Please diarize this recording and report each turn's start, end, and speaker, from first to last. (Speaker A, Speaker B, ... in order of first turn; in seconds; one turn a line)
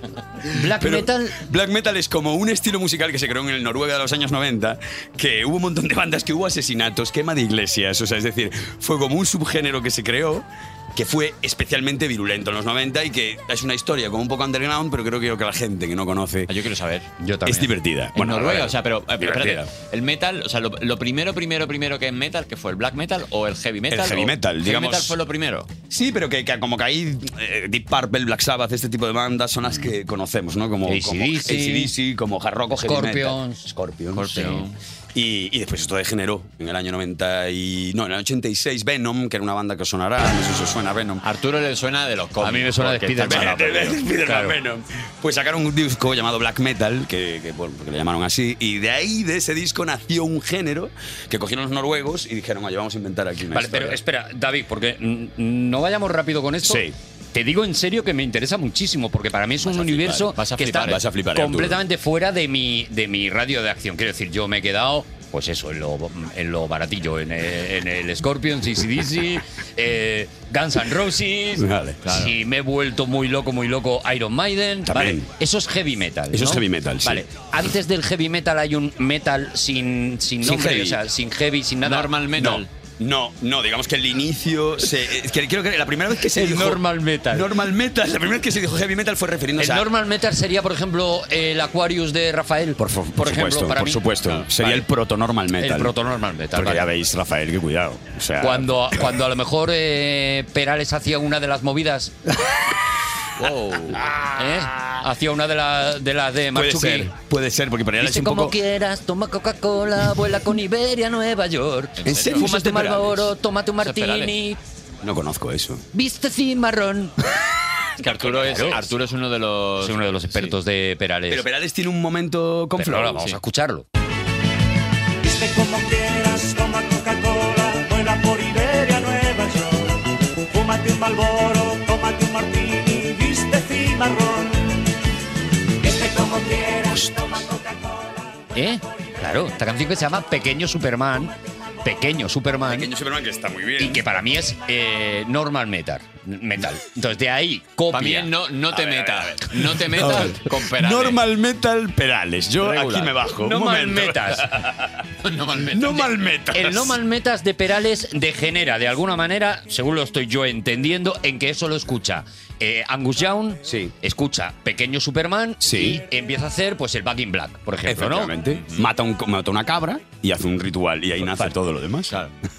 Speaker A: 0.5-1.4
Speaker B: 0.8-16.5
Speaker C: 16.5-17.1
Speaker A: 17.2-17.7
Speaker B: 17.5-18.8
Speaker C: 18.1-25.7
Speaker A: 19.2-19.6
Speaker B: 23.9-25.2
Speaker B: 25.9-34.5
Speaker A: 30.9-31.9
Speaker A: 32.8-33.7
Speaker C: 34.1-34.8
Speaker B: 35.1-41.2
Speaker C: 41.2-44.0
Speaker A: 42.4-44.6
Speaker B: 43.3-54.0
Speaker A: 53.5-82.1
Speaker B: 56.6-56.9
Speaker B: 59.7-61.8
Speaker C: 60.3-61.0
Speaker B: 71.6-72.0
Speaker C: 72.0-72.3
Speaker B: 74.9-75.3
Speaker B: 76.3-77.2
Speaker B: 80.4-81.0
Speaker C: 81.8-82.7
Speaker B: 82.4-89.9
Speaker A: 86.3-87.5
Speaker A: 89.6-94.8
Speaker B: 92.8-95.9
Speaker A: 95.6-96.9
Speaker B: 96.5-99.1
Speaker A: 98.4-102.2
Speaker C: 103.4-104.0
Speaker A: 104.3-107.1
Speaker B: 106.5-108.6
Speaker A: 108.0-114.6
Speaker C: 112.0-112.5
Speaker B: 112.0-113.3
Speaker C: 113.8-114.3
Speaker B: 115.0-115.8
Speaker A: 115.9-117.3
Speaker C: 118.0-120.5
Speaker B: 118.1-118.9
Speaker A: 118.4-118.8
Speaker A: 119.8-121.5
Speaker B: 121.3-123.4
Speaker A: 122.8-123.9
Speaker D: 125.2-134.8
Speaker D: 135.8-138.1
Speaker A: 138.6-141.3
Speaker A: 141.8-142.9
Speaker B: 142.7-144.0
Speaker A: 143.8-148.3
Speaker C: 147.9-151.2
Speaker B: 148.7-155.0
Speaker C: 152.6-153.2
Speaker A: 153.3-154.5
Speaker C: 155.2-156.2
Speaker B: 155.6-157.0
Speaker A: 156.5-168.3
Speaker B: 163.7-163.9
Speaker B: 165.6-166.0
Speaker B: 167.9-172.2
Speaker C: 168.6-168.9